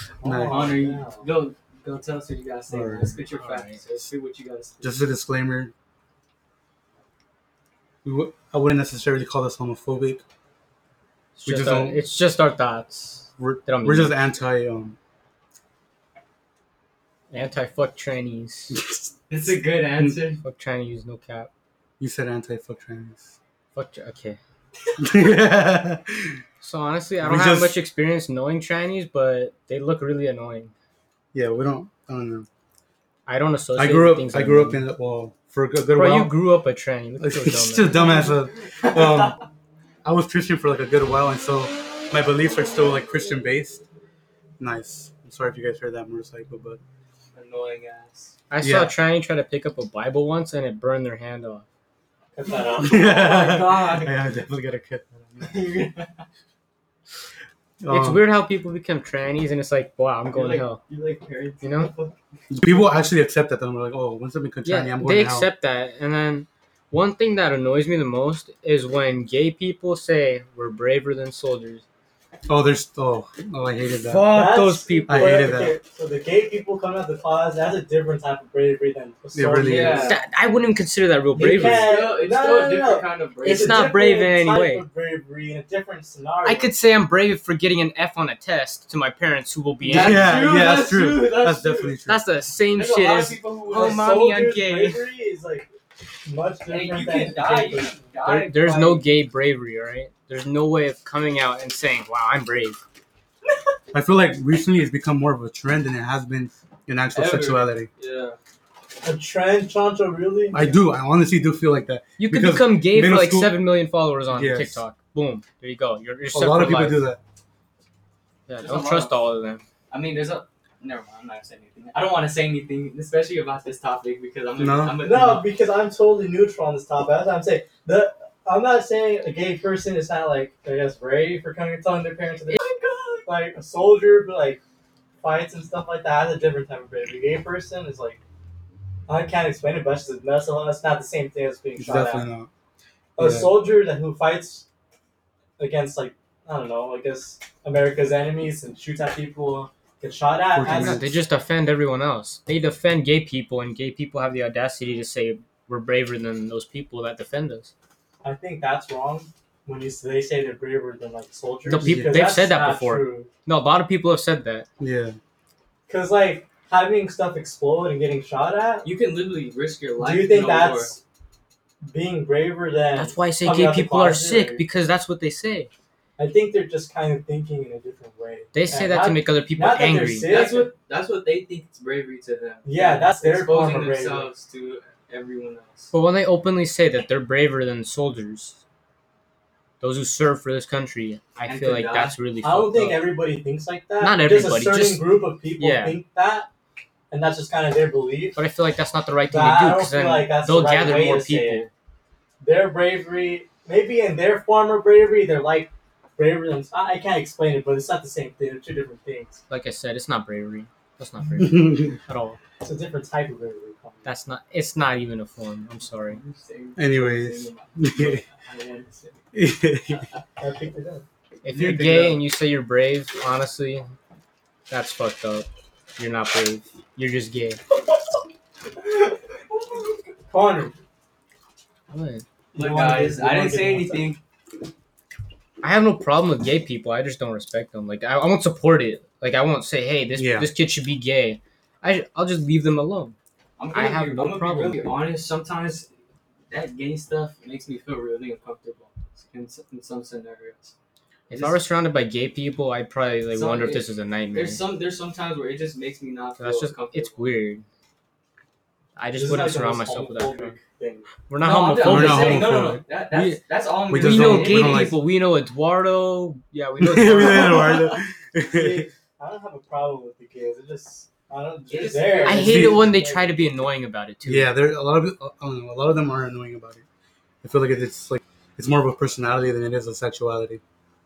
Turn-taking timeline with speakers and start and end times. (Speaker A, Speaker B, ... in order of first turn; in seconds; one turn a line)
Speaker A: 0.2-1.3
Speaker B: 0.2-0.7
Speaker C: 0.4-5.0
Speaker B: 2.7-3.2
Speaker D: 3.3-4.0
Speaker B: 4.8-5.7
Speaker B: 8.0-10.2
Speaker D: 11.4-14.2
Speaker B: 11.4-12.0
Speaker B: 13.4-15.0
Speaker D: 17.3-18.8
Speaker B: 18.7-19.1
Speaker C: 19.3-20.4
Speaker D: 20.4-21.5
Speaker B: 22.0-23.4
Speaker D: 23.7-24.4
Speaker B: 25.0-26.4
Speaker D: 26.6-30.7
Speaker B: 27.2-27.8
Speaker B: 31.3-32.5
Speaker D: 33.3-34.9
Speaker B: 33.8-36.4
Speaker D: 35.9-38.2
Speaker B: 37.2-39.4
Speaker C: 38.2-39.4
Speaker B: 40.0-43.8
Speaker B: 44.6-46.8
Speaker C: 47.3-48.3
Speaker D: 48.5-51.6
Speaker B: 48.6-48.9
Speaker A: 52.3-53.4
Speaker C: 52.6-54.1
Speaker B: 52.8-55.5
Speaker C: 55.4-56.2
Speaker B: 57.8-58.2
Speaker D: 57.9-60.8
Speaker C: 60.3-62.1
Speaker D: 61.6-61.9
Speaker B: 62.5-65.5
Speaker D: 64.6-71.8
Speaker B: 72.5-74.3
Speaker D: 74.0-75.5
Speaker A: 74.3-80.2
Speaker B: 75.1-75.7
Speaker B: 79.3-80.0
Speaker C: 79.6-80.2
Speaker D: 79.9-81.9
Speaker A: 81.3-86.8
Speaker C: 81.6-83.9
Speaker D: 83.4-84.8
Speaker D: 86.4-90.4
Speaker C: 89.8-92.0
Speaker B: 89.9-92.2
Speaker D: 92.0-95.1
Speaker C: 92.7-94.0
Speaker A: 93.7-95.7
Speaker A: 96.2-98.0
Speaker C: 96.7-99.0
Speaker D: 98.2-102.8
Speaker B: 103.9-107.9
Speaker C: 107.1-108.4
Speaker A: 109.0-110.7
Speaker B: 110.5-113.7
Speaker D: 112.2-117.1
Speaker B: 114.3-114.8
Speaker B: 116.3-117.2
Speaker D: 118.5-119.6
Speaker C: 118.6-119.1
Speaker C: 119.9-125.4
Speaker B: 124.6-125.0
Speaker A: 125.0-132.6
Speaker C: 132.5-133.3
Speaker A: 133.2-134.6
Speaker A: 135.2-138.2
Speaker A: 139.1-142.3
Speaker B: 141.8-142.5
Speaker A: 143.2-144.7
Speaker B: 143.2-143.7
Speaker A: 145.6-151.0
Speaker B: 150.5-151.2
Speaker D: 150.6-157.7
Speaker A: 158.2-163.3
Speaker D: 161.7-164.7
Speaker B: 161.8-162.2
Speaker B: 164.8-165.2
Speaker A: 165.9-168.9
Speaker C: 168.8-171.0
Speaker A: 170.0-171.0
Speaker A: 171.8-174.6
Speaker D: 172.9-175.7
Speaker A: 176.2-180.7
Speaker D: 178.5-180.4
Speaker C: 180.2-185.9
Speaker A: 182.6-184.3
Speaker D: 185.9-188.6
Speaker D: 189.8-193.1
Speaker C: 191.5-192.2
Speaker A: 192.4-196.5
Speaker D: 194.0-196.0
Speaker A: 197.1-198.4
Speaker D: 198.3-201.7
Speaker A: 199.3-201.7
Speaker A: 202.4-209.4
Speaker D: 209.5-212.4
Speaker B: 211.4-211.8
Speaker A: 212.6-214.1
Speaker D: 214.0-216.2
Speaker C: 216.0-219.2
Speaker B: 216.8-218.2
Speaker B: 219.3-220.0
Speaker C: 219.9-220.2
Speaker A: 220.4-221.0
Speaker D: 221.4-223.9
Speaker B: 221.5-222.2
Speaker D: 224.7-227.6
Speaker A: 230.3-230.8
Speaker D: 231.9-232.2
Speaker C: 232.5-234.2
Speaker A: 232.5-234.1
Speaker D: 235.6-243.2
Speaker B: 240.2-240.5
Speaker C: 243.6-245.9
Speaker D: 243.7-244.9
Speaker C: 246.5-250.7
Speaker C: 251.3-251.6
Speaker D: 251.3-254.6
Speaker C: 253.3-257.2
Speaker D: 256.4-257.6
Speaker D: 258.9-260.5
Speaker A: 259.1-261.1
Speaker D: 261.3-262.6
Speaker C: 261.4-265.0
Speaker B: 261.8-265.0
Speaker D: 264.0-267.7
Speaker B: 266.8-268.9
Speaker C: 267.2-267.9
Speaker A: 268.4-273.4
Speaker C: 271.7-272.7
Speaker D: 272.2-274.5
Speaker B: 272.4-272.9
Speaker B: 274.2-276.8
Speaker B: 277.4-280.6